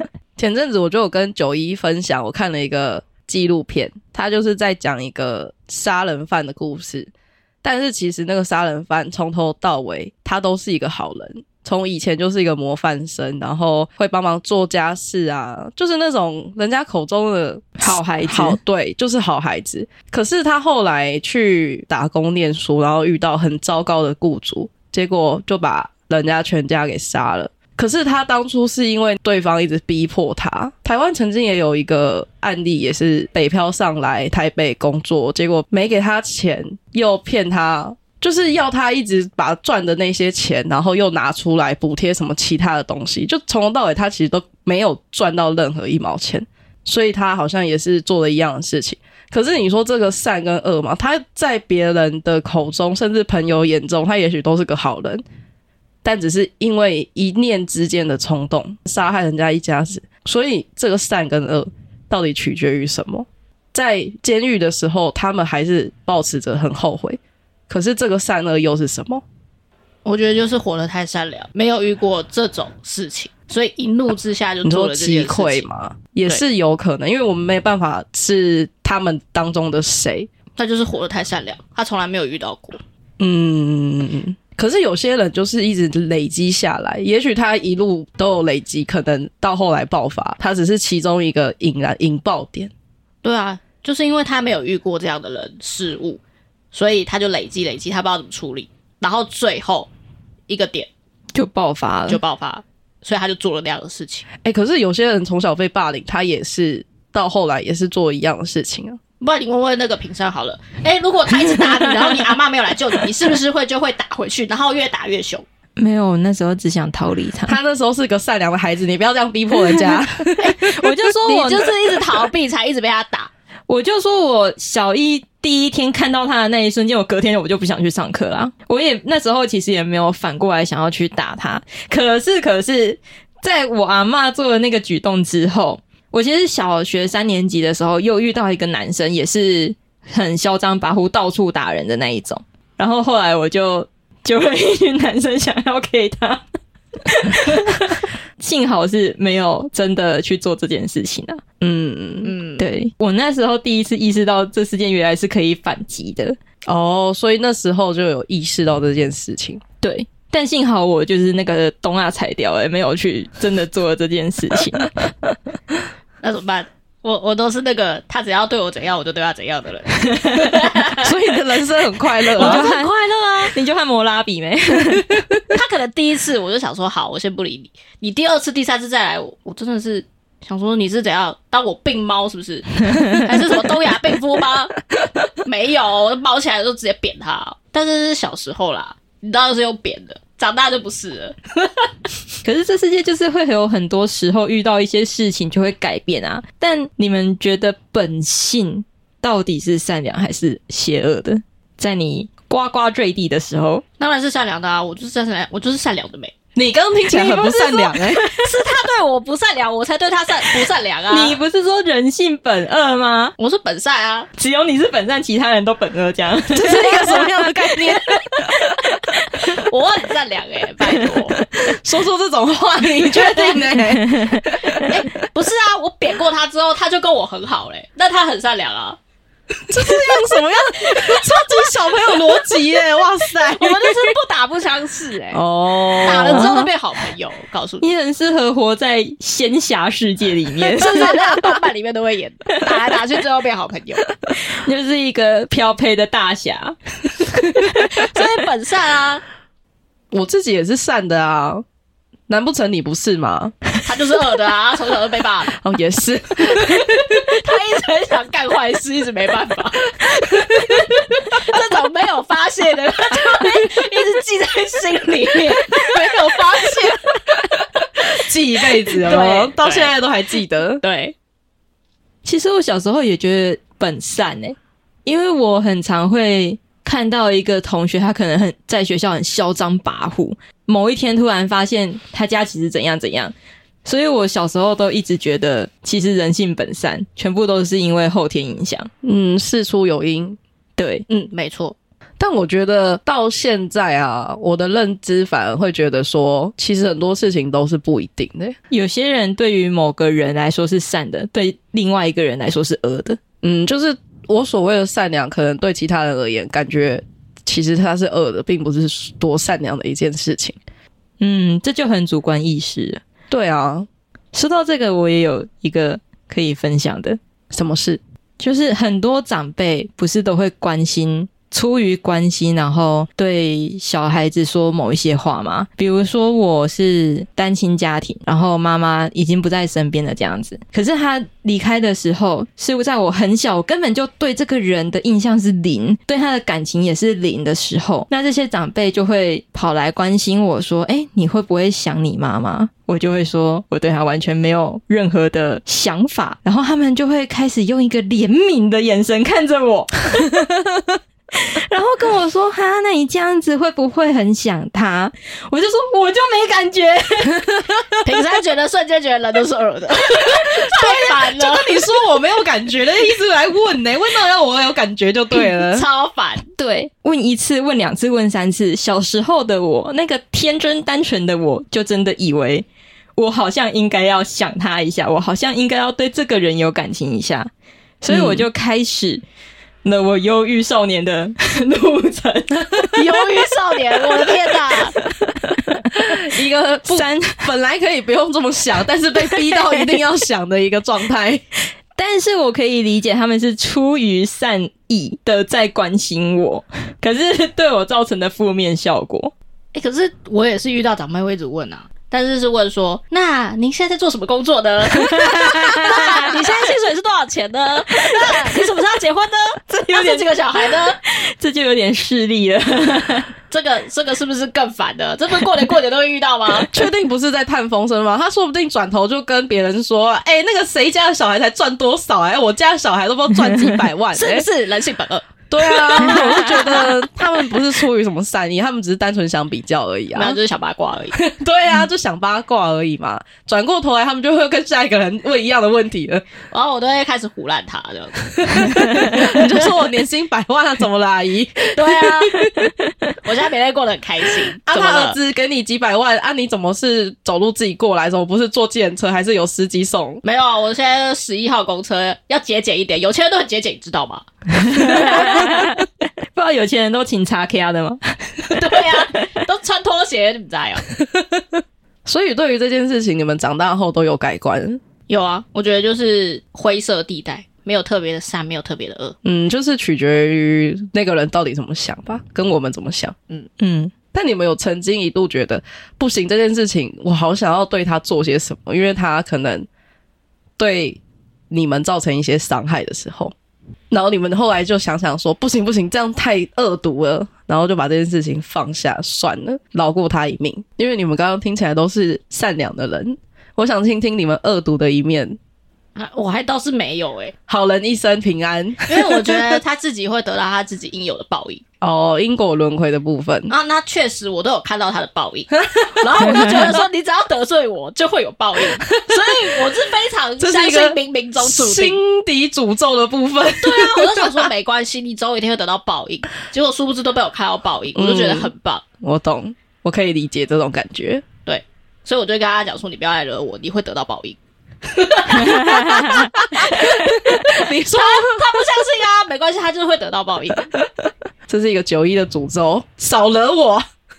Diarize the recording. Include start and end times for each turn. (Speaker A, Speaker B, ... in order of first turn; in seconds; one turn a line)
Speaker A: 0.4-7.1
Speaker A: 7.6-55.2
Speaker B: 17.8-18.6
Speaker A: 56.0-69.2
Speaker C: 70.0-75.7
Speaker A: 74.6-80.3
Speaker C: 80.6-82.8
Speaker A: 83.2-92.7
Speaker C: 93.2-96.2
Speaker C: 96.7-99.9
Speaker C: 100.5-100.9
Speaker B: 101.3-102.2
Speaker C: 102.1-104.3
Speaker A: 104.4-109.0
Speaker C: 109.2-115.5
Speaker B: 115.8-117.6
Speaker A: 117.5-120.8
Speaker B: 119.5-122.2
Speaker C: 121.2-123.3
Speaker B: 123.7-146.4
Speaker B: 147.0-151.4
Speaker A: 151.6-152.3
Speaker C: 152.2-152.7
Speaker B: 152.6-156.3
Speaker A: 156.7-159.6
Speaker B: 159.8-165.3
Speaker C: 166.2-171.1
Speaker A: 171.0-172.7
Speaker C: 172.4-173.5
Speaker B: 172.4-175.1
Speaker C: 175.5-184.8
Speaker B: 182.9-183.2
Speaker C: 185.4-191.9
Speaker B: 192.4-203.8
Speaker C: 204.0-206.3
Speaker A: 206.5-208.2
Speaker B: 207.1-207.9
Speaker C: 207.2-211.4
Speaker B: 211.1-213.3
Speaker C: 213.4-214.3
Speaker B: 214.4-219.0
Speaker A: 216.5-218.5
Speaker C: 219.4-221.4
Speaker B: 220.9-221.2
Speaker A: 221.6-224.9
Speaker B: 223.0-224.4
Speaker C: 224.9-229.0
Speaker A: 229.7-234.1
Speaker C: 230.9-232.5
Speaker C: 233.4-235.4
Speaker A: 235.3-236.6
Speaker C: 236.0-237.9
Speaker B: 236.1-236.7
Speaker B: 237.8-241.1
Speaker C: 240.7-244.1
Speaker B: 244.3-248.2
Speaker C: 247.8-249.2
Speaker A: 250.1-251.6
Speaker A: 252.3-253.5
Speaker C: 253.8-255.5
Speaker A: 255.5-257.1
Speaker C: 256.5-259.9
Speaker A: 260.0-260.8
Speaker C: 261.2-267.0
Speaker A: 265.8-267.6
Speaker A: 268.1-270.8
Speaker C: 269.0-269.9
Speaker C: 270.8-271.1
Speaker B: 272.2-283.3
Speaker B: 283.8-288.9
Speaker A: 289.0-290.4
Speaker B: 290.8-291.0
Speaker C: 291.1-291.8
Speaker A: 292.2-298.5
Speaker B: 298.7-303.2
Speaker A: 303.4-310.6
Speaker B: 311.2-313.0
Speaker A: 313.3-313.9
Speaker B: 314.3-317.2
Speaker A: 317.5-318.0
Speaker B: 318.4-350.5
Speaker B: 351.3-357.6
Speaker C: 358.0-361.9
Speaker A: 360.1-365.9
Speaker C: 365.3-366.4
Speaker B: 366.6-372.6
Speaker B: 373.2-377.5
Speaker B: 378.0-379.2
Speaker A: 378.1-378.5
Speaker B: 379.8-383.2
Speaker C: 382.9-384.9
Speaker B: 384.9-386.1
Speaker A: 386.0-391.4
Speaker B: 386.9-387.5
Speaker B: 389.1-389.6
Speaker B: 391.9-399.3
Speaker C: 399.7-411.0
Speaker B: 404.9-406.4
Speaker B: 409.7-410.3
Speaker B: 410.9-413.3
Speaker C: 413.5-416.7
Speaker A: 416.7-424.4
Speaker C: 424.1-426.4
Speaker A: 425.5-430.4
Speaker B: 426.0-426.7
Speaker C: 430.1-431.2
Speaker A: 431.1-436.2
Speaker C: 436.5-438.2
Speaker A: 438.4-442.7
Speaker C: 441.7-442.5
Speaker C: 443.2-445.2
Speaker A: 444.6-450.2
Speaker C: 450.2-455.5
Speaker B: 454.6-458.6
Speaker C: 458.5-460.8
Speaker A: 462.1-464.8
Speaker C: 465.1-469.1
Speaker A: 469.2-473.2
Speaker B: 473.6-473.9
Speaker A: 474.1-479.7
Speaker A: 480.6-481.0
Speaker A: 481.5-483.3
Speaker A: 483.9-495.4
Speaker C: 495.9-497.3
Speaker A: 497.5-499.6
Speaker C: 498.9-501.6
Speaker A: 501.8-503.5
Speaker C: 503.5-512.0
Speaker A: 506.0-506.5
Speaker A: 509.0-509.2
Speaker A: 510.4-514.5
Speaker C: 513.6-518.8
Speaker A: 517.9-518.5
Speaker A: 519.0-521.2
Speaker C: 521.5-524.4
Speaker C: 524.9-527.2
Speaker B: 525.5-526.2
Speaker A: 525.9-528.6
Speaker C: 527.9-530.7
Speaker A: 531.5-533.8